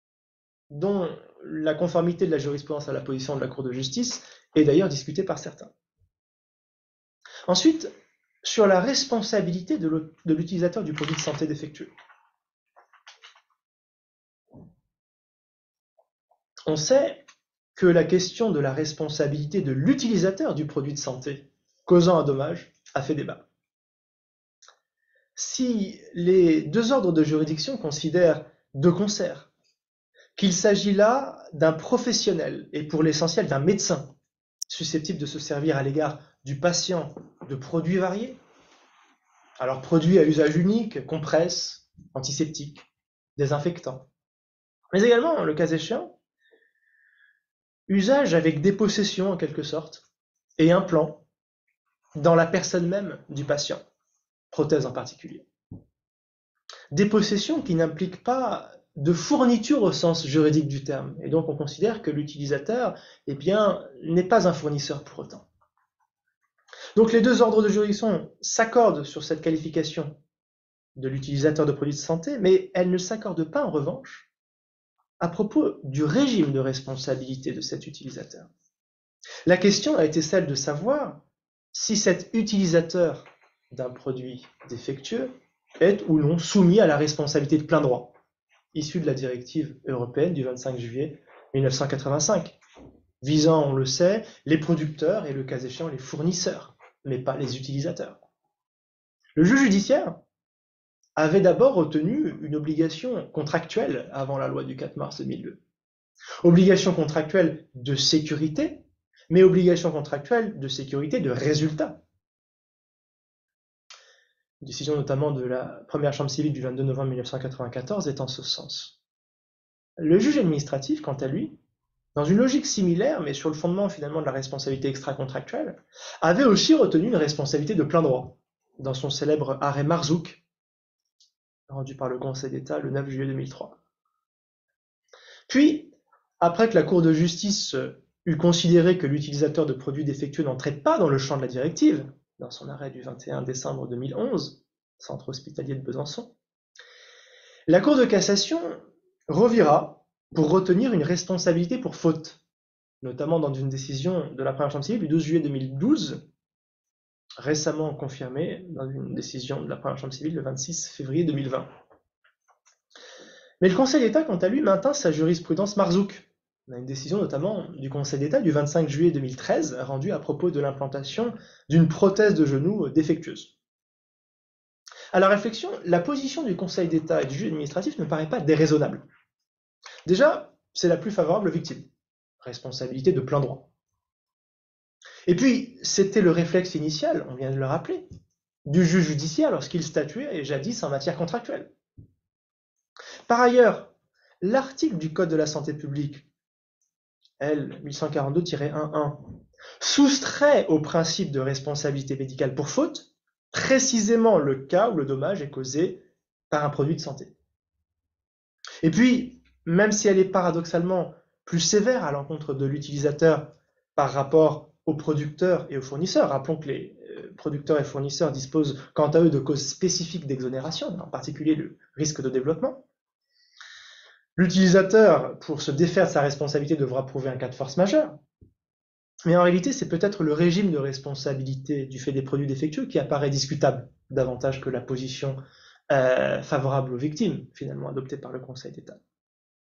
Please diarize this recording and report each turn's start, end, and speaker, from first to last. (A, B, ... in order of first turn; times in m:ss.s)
0:00.7-0:05.7 A
0:07.5-0:07.9 A
0:08.4-0:11.9 A
0:16.7-0:17.2 A
0:17.7-0:23.4 A
0:25.4-0:29.5 A
0:30.4-0:34.1 A
0:34.7-0:38.4 A
0:39.6-0:44.0 A
0:44.9-0:46.1 A
0:47.9-0:50.0 A
0:50.6-0:51.2 A
0:52.2-0:53.8 A
0:54.5-0:55.4 A
0:56.9-1:05.4 A
1:07.0-1:10.1 A
1:11.0-1:14.3 A
1:15.2-1:18.5 A
1:19.4-1:21.2 A
1:21.7-1:28.1 A
1:28.7-1:32.6 A
1:33.2-1:38.2 A
1:39.4-1:40.2 A
1:41.2-1:45.6 A
1:46.4-1:52.0 A
1:54.6-1:59.0 A
2:00.0-2:01.5 A
2:02.2-2:10.4 A
2:11.7-2:13.8 A
2:15.5-2:26.3 A
2:27.7-2:32.4 A
2:33.0-2:36.2 A
2:37.4-2:41.7 A
2:43.6-2:53.5 A
2:55.1-2:59.0 A
3:00.0-3:01.9 A
3:02.4-3:03.7 A
3:05.3-3:08.0 A
3:08.6-3:11.7 A
3:13.3-3:16.3 A
3:17.4-3:19.2 A
3:19.8-3:27.3 A
3:28.8-3:42.8 A
3:44.4-3:48.2 A
3:49.3-3:55.4 A
3:55.9-3:59.0 A